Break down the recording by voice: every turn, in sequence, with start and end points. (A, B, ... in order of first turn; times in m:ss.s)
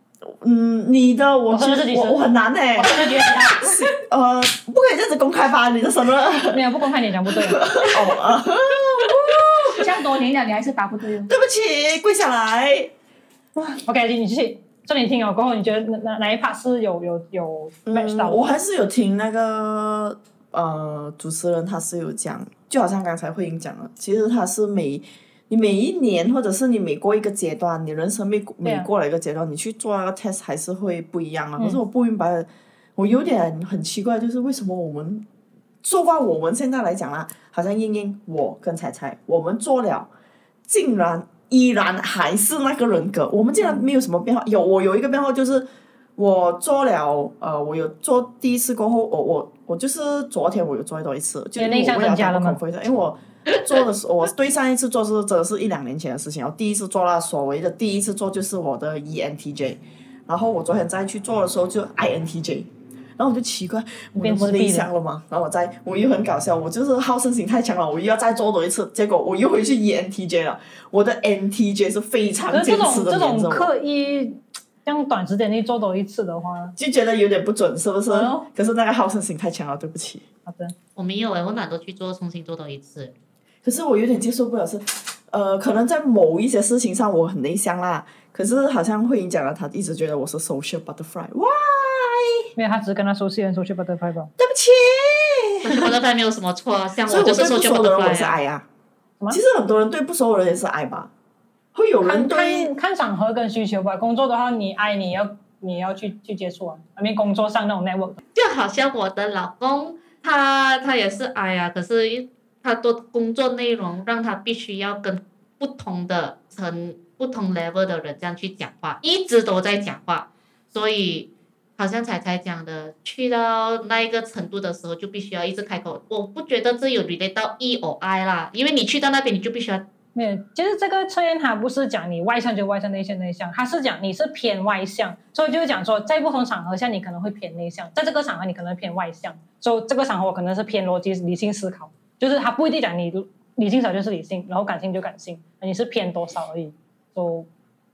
0:00.2-0:06.6 A
0:01.5-0:02.2 B
0:02.8-0:03.8 B
0:06.5-0:07.7 B
0:07.3-0:09.9 A
0:09.7-0:11.3 C
0:11.3-0:12.9 A
0:13.8-0:18.4 B
0:17.9-0:35.2 A
0:28.6-0:28.9 B
0:35.8-0:40.1 A
0:40.7-0:45.7 A
0:46.2-1:13.7 A
0:51.6-0:52.6 B
1:04.2-1:04.9 B
1:12.5-1:16.8 B
1:16.8-1:20.2 A
1:18.1-1:18.4 C
1:20.5-1:20.8 B
1:21.0-1:23.1 D
1:23.6-1:32.5 A
1:32.6-1:34.3 B
1:34.4-1:36.0 A
1:35.6-1:38.4 D
1:37.1-1:38.7 A
1:39.3-1:41.1 A
1:41.7-1:42.7 A
1:42.0-1:48.2 B
1:48.4-2:09.9 D
2:10.1-2:27.5 B